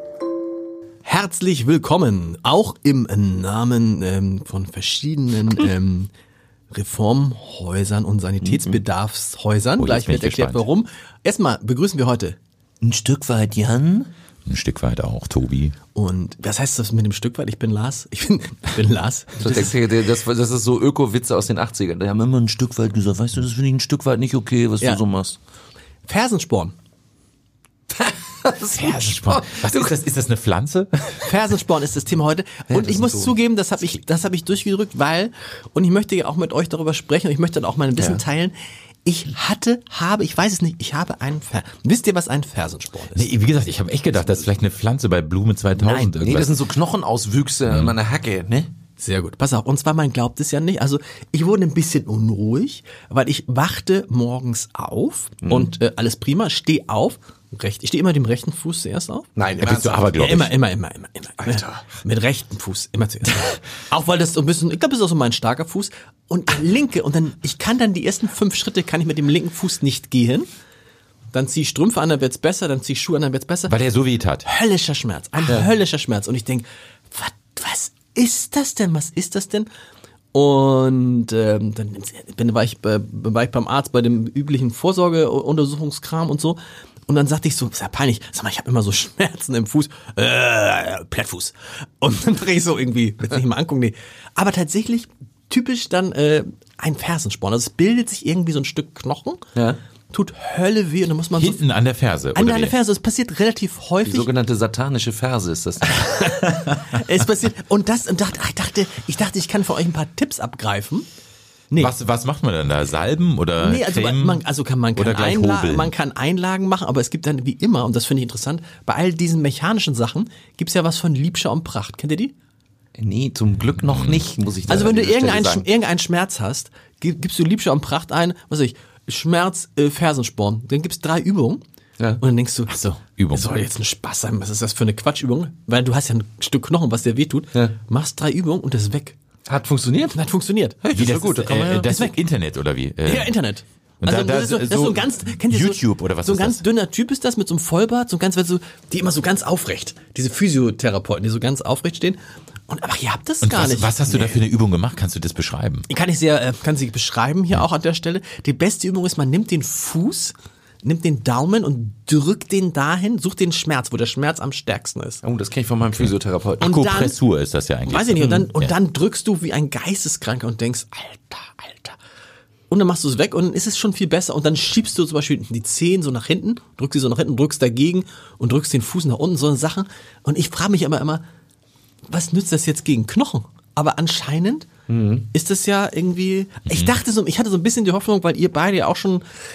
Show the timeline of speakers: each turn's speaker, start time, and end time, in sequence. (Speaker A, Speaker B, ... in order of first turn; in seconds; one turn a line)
Speaker A: 1.1-6.1
Speaker A: 6.7-12.4
Speaker B: 9.8-10.7
Speaker C: 12.8-14.1
Speaker B: 14.5-15.8
Speaker A: 15.9-19.7
Speaker C: 19.4-25.4
Speaker A: 26.1-26.7
Speaker C: 27.9-29.9
Speaker B: 28.8-31.4
Speaker A: 31.2-43.3
Speaker C: 32.7-33.4
Speaker B: 43.1-46.5
Speaker A: 45.8-46.3
Speaker C: 46.2-48.7
Speaker A: 49.0-59.3
Speaker C: 59.4-60.1
Speaker B: 59.6-60.6
Speaker A: 60.1-70.5
Speaker C: 61.4-61.8
Speaker A: 71.3-73.8
Speaker B: 73.7-74.5
Speaker A: 74.4-79.7
Speaker A: 80.3-99.4
Speaker A: 100.1-101.6
Speaker B: 101.4-102.8
Speaker A: 102.3-104.3
Speaker C: 104.0-106.3
Speaker A: 105.9-111.1
Speaker B: 111.8-114.4
Speaker A: 113.6-122.3
Speaker B: 115.0-115.9
Speaker C: 123.0-125.7
Speaker B: 123.8-124.3
Speaker A: 124.7-131.6
Speaker A: 132.2-139.2
Speaker B: 133.2-133.5
Speaker C: 139.5-140.2
Speaker A: 140.1-140.8
Speaker C: 140.8-141.9
Speaker B: 140.9-143.4
Speaker A: 141.9-142.1
Speaker A: 143.0-154.4
Speaker B: 144.0-146.6
Speaker B: 153.4-155.9
Speaker A: 155.9-165.2
Speaker C: 165.2-166.7
Speaker B: 166.0-168.8
Speaker A: 166.6-167.2
Speaker A: 167.9-172.0
Speaker A: 172.7-181.2
Speaker A: 182.1-184.7
Speaker C: 184.9-185.3
Speaker A: 185.3-189.2
Speaker B: 186.7-187.0